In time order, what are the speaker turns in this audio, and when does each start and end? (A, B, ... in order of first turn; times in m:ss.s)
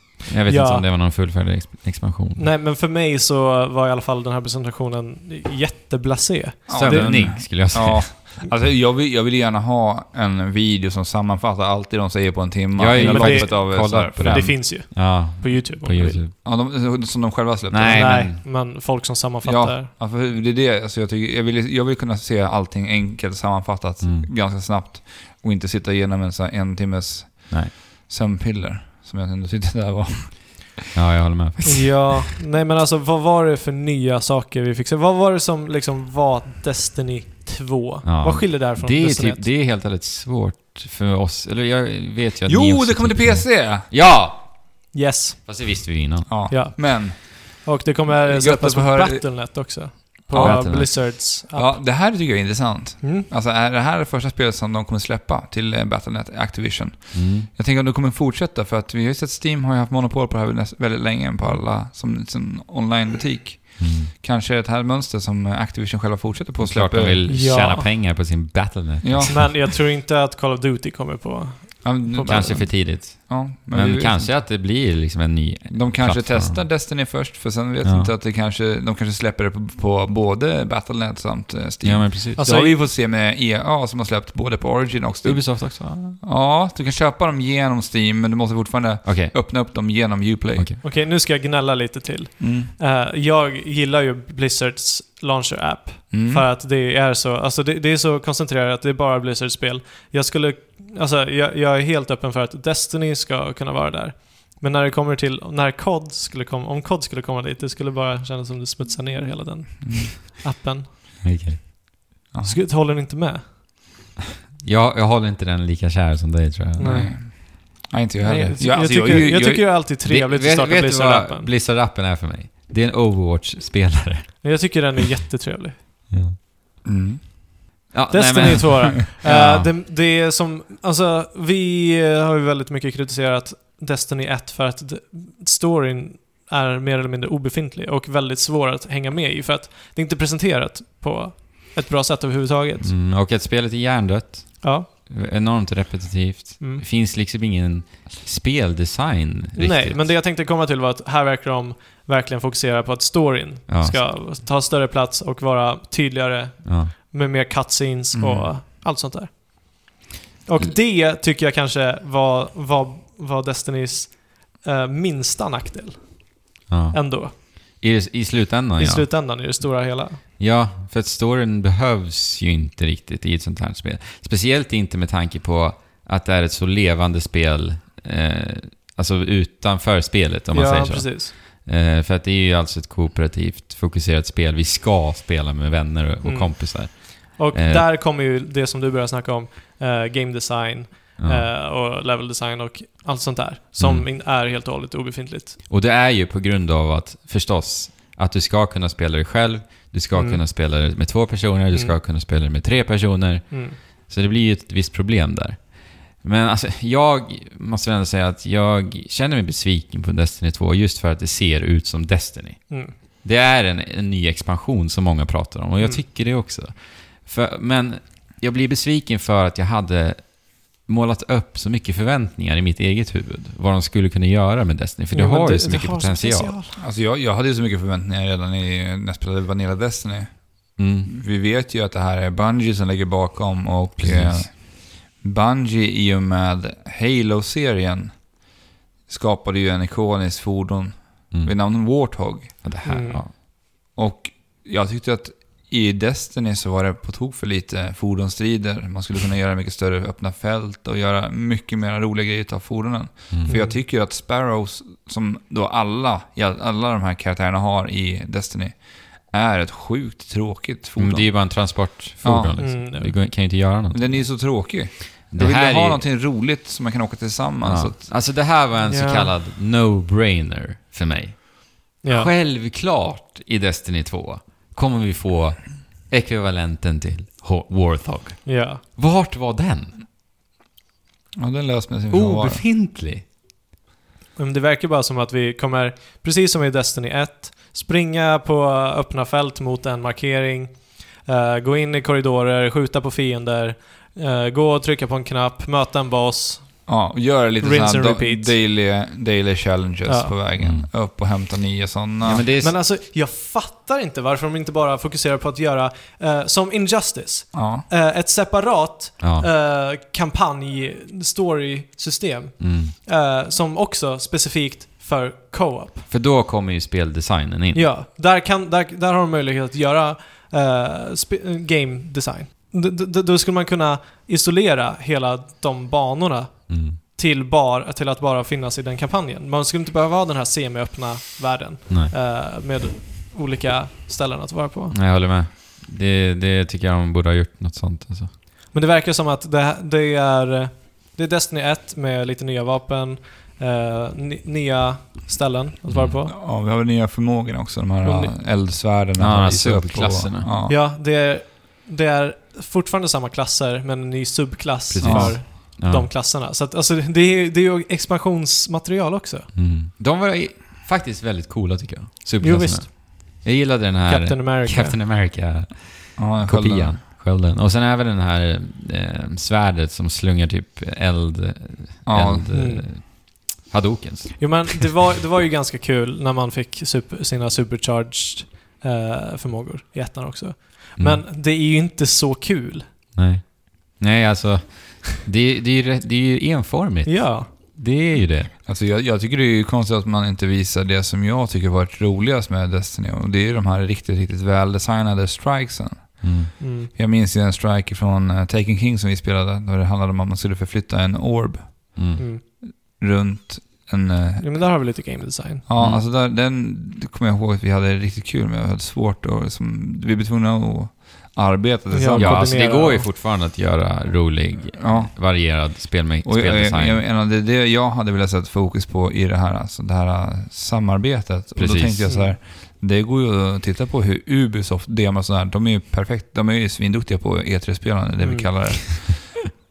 0:00.3-0:02.5 A
0:00.5-0:00.8 B
0:02.4-0:07.5 B
0:06.7-0:14.6 C
0:06.7-0:08.2 A
0:12.8-0:16.3 A
0:12.9-0:16.2 B
0:16.4-0:18.3 C
0:17.7-0:18.4 A
0:17.9-0:19.9 B
0:19.4-0:30.7 C
0:24.0-0:24.3 A
0:30.9-0:32.1 A
0:31.7-0:39.5 B
0:38.0-0:46.6 A
0:42.4-0:43.9 C
0:44.9-0:45.8 B
0:46.3-0:49.8 C
0:46.5-0:51.8 B
0:50.3-1:07.3 C
0:50.3-0:51.2 A
0:53.0-0:53.3 B
0:57.1-0:57.5 A
1:03.8-1:04.1 A
1:06.6-1:09.6 A
1:07.3-1:07.9 B
1:09.0-1:09.5 C
1:09.3-1:12.6 B
1:11.8-1:14.4 C
1:12.3-1:16.7 A
1:15.7-1:30.7 C
1:17.8-1:18.1 A
1:21.8-1:22.4 A
1:22.4-1:22.8 B
1:25.2-1:26.2 A
1:29.0-1:29.3 A
1:30.6-1:30.8 A
1:30.8-1:50.9 B
1:32.4-1:32.7 C
1:36.1-1:36.4 C
1:49.8-1:50.1 C
1:51.2-1:51.6 A
1:52.3-1:52.6 C
1:52.4-1:53.5 B
1:54.6-1:57.1 A
1:56.8-2:01.5 B
1:56.8-1:59.7 C
1:59.8-2:04.9 A
2:04.4-2:05.8 B
2:06.1-2:06.4 A
2:06.8-2:07.6 C
2:07.9-2:09.7 A
2:08.1-2:22.9 B
2:22.8-2:30.1 A
2:24.6-2:24.9 B
2:29.6-2:39.9 B
2:33.7-2:34.0 A
2:36.6-2:36.9 A
2:38.1-2:38.5 C
2:40.4-2:47.3 B
2:46.7-2:49.6 A
2:48.8-2:50.2 B
2:50.4-3:07.8 A
3:00.5-3:01.3 B
3:06.2-3:15.6 B
3:11.2-3:11.5 A
3:13.8-3:14.1 A
3:15.7-3:46.6 A
3:20.1-3:20.4 B
3:23.5-3:23.8 B
3:45.1-3:46.8 B
3:46.8-3:58.5 C
3:50.8-3:51.1 A
3:54.0-3:54.5 A
3:59.1-4:02.7 C
4:01.3-4:02.1 A
4:02.6-4:03.3 A
4:02.8-4:03.2 B
4:03.5-4:22.6 C
4:13.3-4:13.6 A
4:13.4-4:13.8 B
4:21.0-4:26.0 A
4:22.6-4:23.2 B
4:23.9-4:28.0 C
4:27.6-4:40.0 A
4:28.8-4:29.3 B
4:32.0-4:32.3 B
4:38.4-4:38.8 B
4:41.4-4:42.6 C
4:42.1-4:43.2 A
4:44.4-4:57.0 B
4:56.8-5:02.4 C
4:57.6-4:58.5 B
5:00.0-5:00.3 B
5:00.6-5:00.9 A
5:02.2-5:02.8 A
5:02.6-5:16.0 B
5:07.5-5:07.9 C
5:09.2-5:09.5 A
5:12.6-5:12.9 A
5:16.1-5:17.9 A
5:17.7-5:34.9 B
5:26.7-5:27.0 A
5:34.9-5:38.3 A
5:38.7-5:46.3 B
5:45.9-5:46.2 A
5:46.3-5:50.8 C
5:48.0-5:48.4 B
5:49.2-5:50.5 A
5:50.6-5:59.5 B
5:54.9-5:56.1 A
5:55.0-5:55.4 C
5:59.5-6:14.8 A
6:02.4-6:03.4 B
6:04.1-6:05.0 B
6:06.2-6:07.0 C
6:12.0-6:12.5 C
6:12.5-6:12.9 B
6:14.4-6:22.9 B
6:21.0-6:21.2 A
6:23.1-6:28.5 A
6:27.0-6:27.5 B
6:28.5-6:44.7 C
6:36.2-6:36.5 A
6:36.6-6:36.9 B
6:42.0-6:42.2 A
6:42.2-6:42.4 B
6:44.4-6:45.6 B
6:45.6-6:52.6 C
6:45.8-6:46.0 A
6:51.9-6:53.1 B
6:52.1-6:57.0 A
6:54.8-6:55.7 C
6:56.2-7:09.5 C
7:01.6-7:02.1 A
7:02.0-7:02.3 B
7:08.2-7:08.5 B